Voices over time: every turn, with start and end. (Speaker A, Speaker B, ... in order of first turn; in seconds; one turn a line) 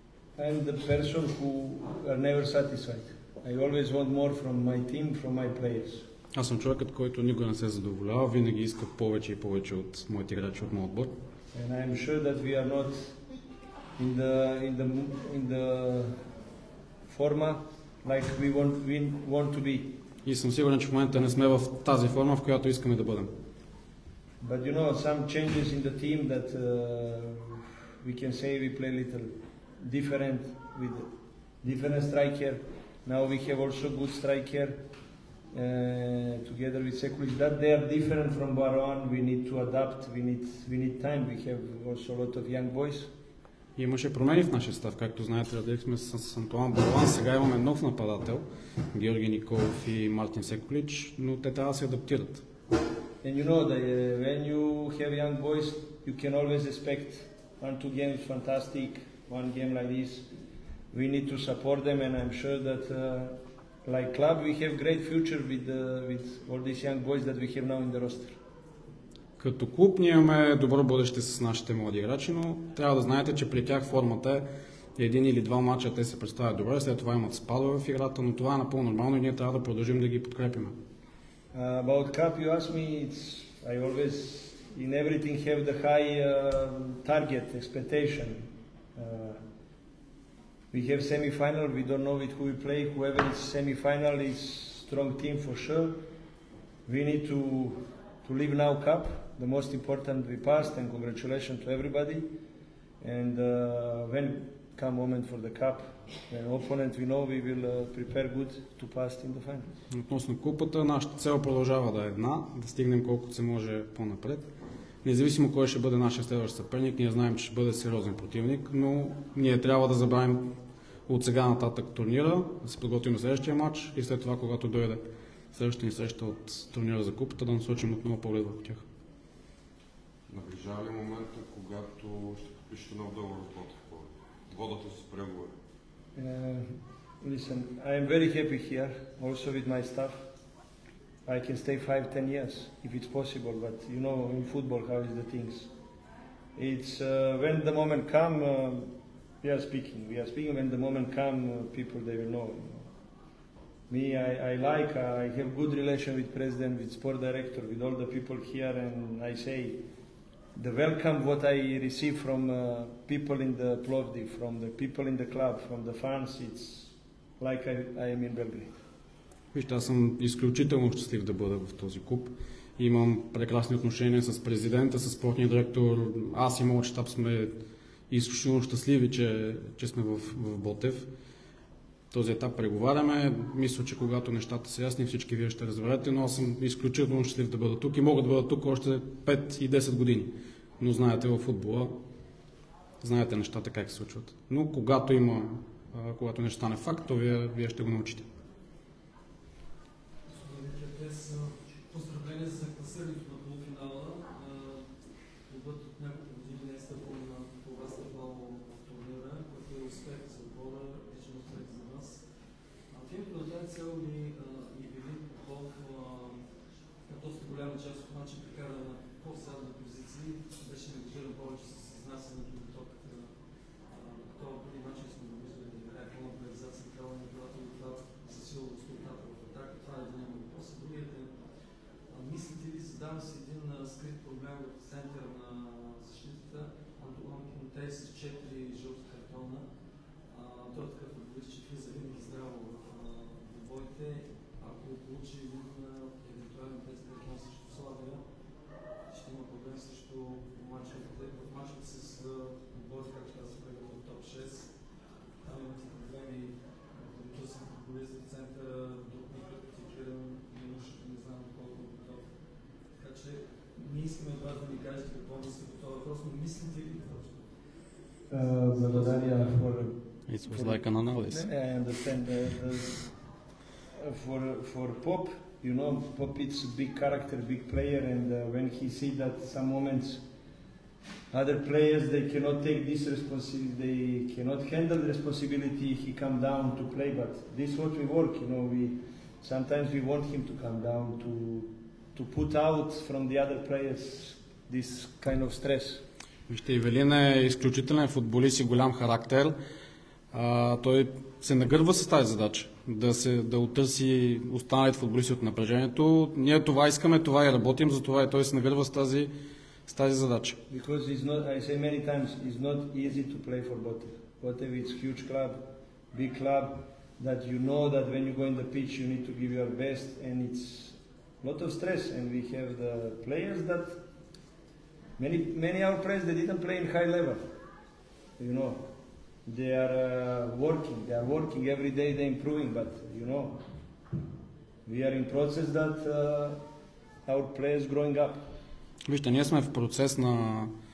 Speaker A: 0.3-6.1
Speaker B: 6.3-11.1
Speaker A: 11.5-13.2
Speaker A: 14.0-16.1
Speaker A: 17.1-20.0
Speaker B: 20.2-23.3
Speaker A: 24.4-31.1
Speaker A: 31.6-34.8
Speaker A: 35.5-43.1
Speaker B: 43.8-52.4
Speaker A: 53.2-60.3
Speaker A: 60.9-68.4
Speaker B: 69.4-80.7
Speaker A: 81.5-89.4
Speaker A: 90.7-96.0
Speaker A: 96.9-102.3
Speaker A: 103.0-109.7
Speaker B: 109.9-114.5
Speaker B: 115.0-120.5
Speaker B: 121.1-125.0
Speaker B: 125.5-128.8
Speaker C: 130.3-135.6
Speaker A: 136.2-140.3
Speaker A: 141.2-145.7
Speaker A: 146.6-152.9
Speaker A: 153.9-159.8
Speaker A: 160.6-168.8
Speaker B: 169.5-177.6
Speaker B: 178.1-181.1
Speaker B: 182.1-192.0
Speaker B: 193.0-198.3
Speaker D: 200.3-204.8
Speaker D: 205.5-212.2
Speaker D: 212.9-216.4
Speaker D: 217.1-223.4
Speaker D: 223.9-231.4
Speaker D: 232.1-239.7
Speaker D: 240.3-248.2
Speaker D: 249.1-254.8
Speaker D: 255.4-262.3
Speaker D: 262.9-267.6
Speaker A: 268.3-273.2
Speaker D: 268.6-269.5
Speaker B: 270.3-271.5
Speaker A: 273.9-280.2
Speaker A: 281.3-296.0
Speaker B: 296.5-299.6
Speaker B: 300.3-309.3
Speaker B: 309.9-310.6
Speaker A: 310.7-315.6
Speaker A: 316.1-324.0
Speaker A: 325.2-327.4
Speaker A: 328.4-328.8
Speaker A: 329.5-333.6
Speaker A: 334.9-336.6
Speaker A: 337.2-338.5
Speaker B: 339.1-340.7